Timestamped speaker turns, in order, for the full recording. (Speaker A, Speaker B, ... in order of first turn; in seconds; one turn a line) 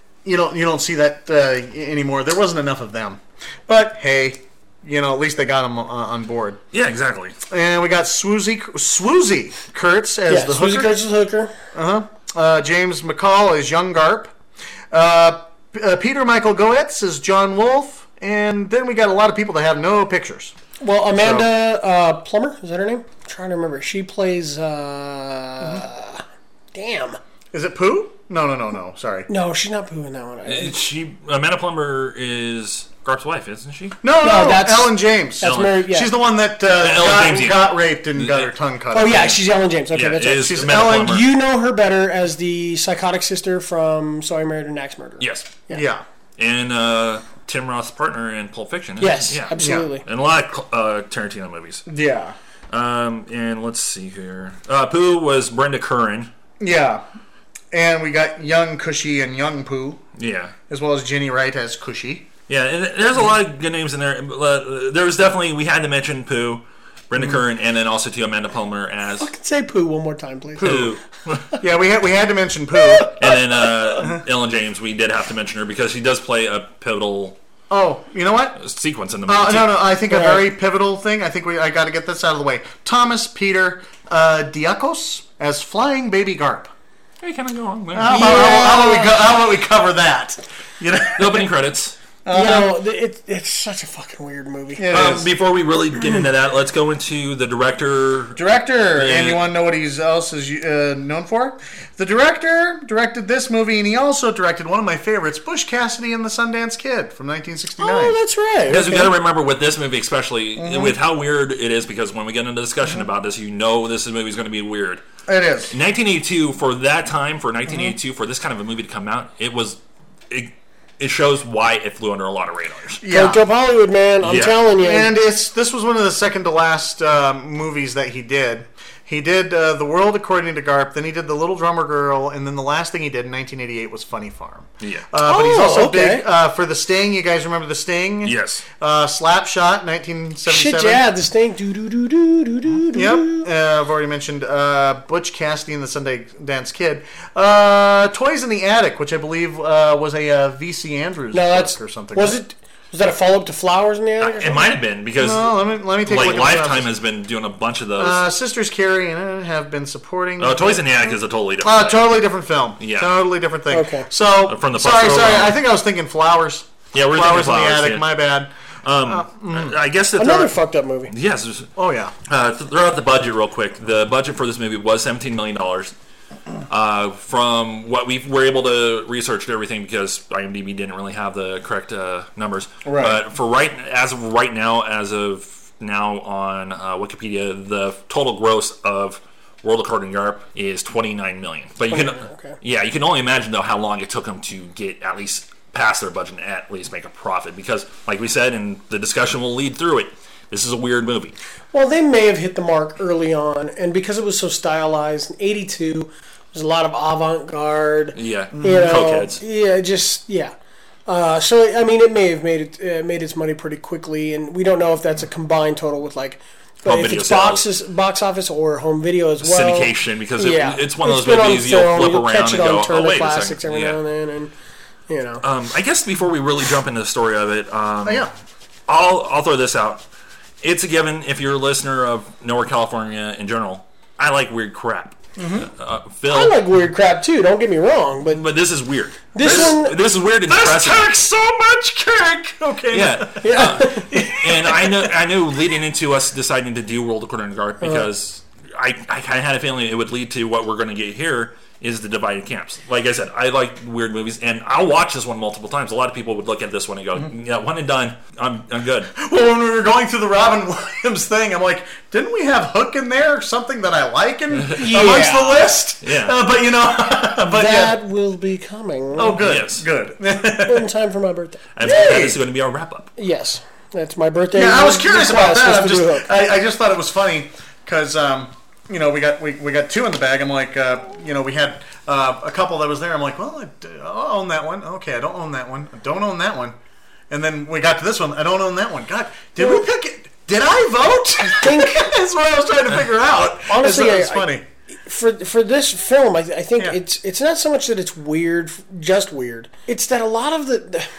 Speaker A: 0.2-6.6
Speaker B: 6.7-7.3
Speaker A: 7.5-10.9
Speaker C: 10.3-11.5
Speaker A: 11.7-14.3
Speaker A: 14.9-20.5
Speaker C: 20.8-26.2
Speaker A: 21.1-21.5
Speaker C: 26.7-27.2
Speaker A: 27.5-29.3
Speaker C: 29.3-30.8
Speaker B: 30.4-34.0
Speaker A: 34.0-39.4
Speaker C: 34.2-36.1
Speaker B: 35.4-35.8
Speaker B: 36.7-38.5
Speaker C: 38.9-45.8
Speaker B: 39.9-41.3
Speaker A: 40.4-41.2
Speaker B: 45.2-45.5
Speaker A: 45.7-46.0
Speaker B: 46.4-51.8
Speaker C: 49.0-50.0
Speaker A: 49.6-49.9
Speaker A: 51.9-52.4
Speaker B: 52.7-56.3
Speaker A: 56.6-57.0
Speaker A: 57.7-60.0
Speaker B: 60.2-60.5
Speaker A: 60.7-62.3
Speaker B: 62.5-69.3
Speaker C: 69.2-70.8
Speaker A: 70.6-70.9
Speaker B: 70.6-71.6
Speaker A: 71.6-73.1
Speaker B: 73.1-77.4
Speaker A: 77.7-78.6
Speaker B: 78.6-80.0
Speaker A: 79.2-86.7
Speaker C: 80.1-80.4
Speaker B: 87.2-88.5
Speaker A: 87.9-91.5
Speaker C: 88.1-89.2
Speaker B: 91.2-92.0
Speaker A: 92.2-92.7
Speaker C: 92.3-94.9
Speaker A: 94.8-95.3
Speaker B: 94.9-98.4
Speaker A: 98.3-108.2
Speaker B: 98.9-99.4
Speaker C: 107.8-109.1
Speaker B: 108.7-115.0
Speaker A: 110.6-111.0
Speaker A: 115.3-115.7
Speaker B: 115.7-119.8
Speaker B: 120.3-123.0
Speaker A: 123.0-123.4
Speaker C: 123.1-125.1
Speaker B: 124.2-124.6
Speaker A: 124.8-141.1
Speaker B: 134.8-135.1
Speaker C: 135.2-136.2
Speaker B: 138.2-138.7
Speaker C: 140.4-143.5
Speaker A: 142.9-152.4
Speaker C: 151.3-154.7
Speaker B: 154.2-158.2
Speaker A: 155.2-156.9
Speaker A: 158.0-168.5
Speaker B: 160.4-162.2
Speaker B: 162.8-163.1
Speaker C: 163.7-164.1
Speaker B: 164.5-165.6
Speaker B: 166.9-168.2
Speaker B: 168.8-170.6
Speaker A: 169.0-169.8
Speaker C: 170.2-171.1
Speaker B: 171.1-171.7
Speaker A: 171.8-172.1
Speaker B: 172.2-175.9
Speaker B: 176.7-201.3
Speaker A: 182.8-183.2
Speaker C: 191.9-192.6
Speaker C: 201.7-210.5
Speaker B: 208.1-209.4
Speaker A: 208.5-208.9
Speaker C: 211.1-224.5
Speaker B: 216.8-217.7
Speaker B: 219.4-224.0
Speaker C: 225.1-225.4
Speaker B: 225.4-228.3
Speaker A: 228.0-228.3
Speaker B: 228.9-230.0
Speaker B: 230.6-236.6
Speaker A: 235.4-235.7
Speaker C: 236.3-238.4
Speaker B: 238.3-241.1
Speaker C: 239.3-239.9
Speaker A: 239.4-239.8
Speaker A: 240.5-245.1
Speaker B: 242.9-259.1
Speaker C: 243.4-244.1
Speaker C: 247.8-248.1
Speaker A: 259.1-268.0
Speaker C: 264.8-265.7
Speaker B: 266.0-266.4
Speaker C: 267.4-269.4
Speaker A: 269.1-270.9
Speaker B: 269.4-269.9
Speaker C: 270.6-271.6
Speaker B: 271.7-273.1
Speaker A: 271.8-272.4
Speaker C: 273.2-276.3
Speaker A: 274.5-286.8
Speaker A: 287.3-294.6
Speaker C: 291.5-292.1
Speaker C: 293.7-294.5
Speaker C: 295.1-301.1